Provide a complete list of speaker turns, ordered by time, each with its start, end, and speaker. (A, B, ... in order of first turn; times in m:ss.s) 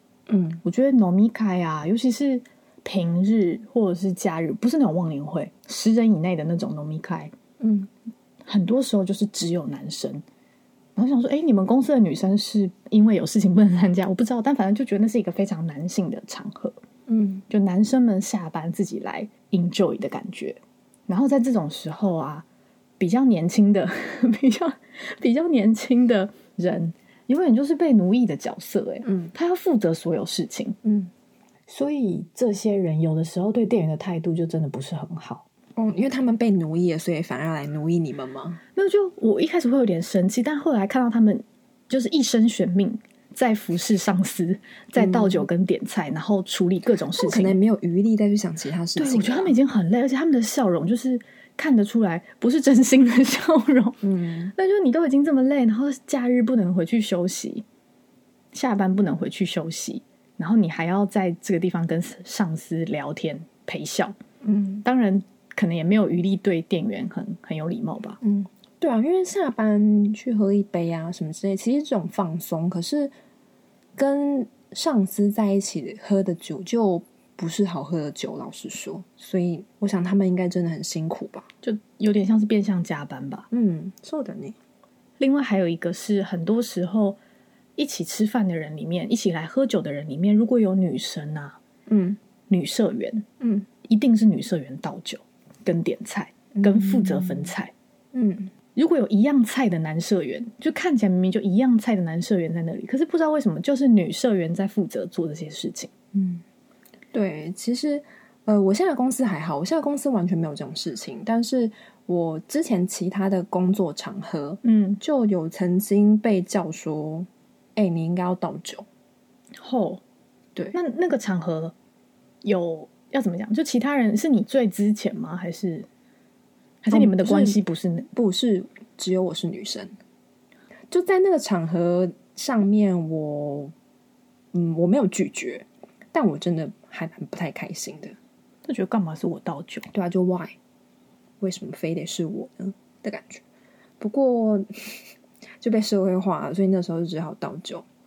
0:00.3-0:00.6 A
0:00.6-0:07.3 B
0:07.6-0:07.9 A
0:08.4-0:10.2 B
0:11.0-0:16.8 B
0:17.1-0:17.4 A
0:17.5-0:22.4 B
0:23.0-0:30.8 B
0:29.0-0:29.3 A
0:30.8-0:31.1 A
0:31.7-0:35.4 B
0:35.8-0:38.6 A
0:38.8-0:47.6 B
0:45.0-0:45.4 A
0:47.2-0:49.6 A
0:49.0-0:54.0 B
0:54.0-0:54.5 A
0:54.5-0:57.6 B
0:58.5-1:04.1 B
1:04.4-1:04.8 A
1:04.8-1:08.2 B
1:08.2-1:13.1 A
1:14.0-1:21.5 A
1:21.6-1:23.5 B
1:23.5-1:24.6 A
1:25.2-1:27.2 B
1:27.8-1:31.6 B
1:31.9-1:32.2 A
1:32.5-1:33.2 B
1:33.4-1:33.7 A
1:33.8-1:37.7 B
1:36.5-1:37.5 A
1:38.1-1:38.5 A
1:38.7-1:45.9 B
1:46.1-1:46.4 A
1:47.1-1:58.8 A
1:54.6-1:55.0 B
1:59.6-2:00.0 B
2:00.7-2:01.7 B
2:02.4-2:05.9 B
2:06.8-2:08.1 B
2:06.9-2:07.6 A
2:08.1-2:09.9 A
2:10.9-2:13.7 A
2:14.5-2:18.1 A
2:18.6-2:19.9 B
2:19.9-2:20.6 A
2:21.4-2:23.4 A
2:24.0-2:25.0 A
2:25.6-2:27.8 A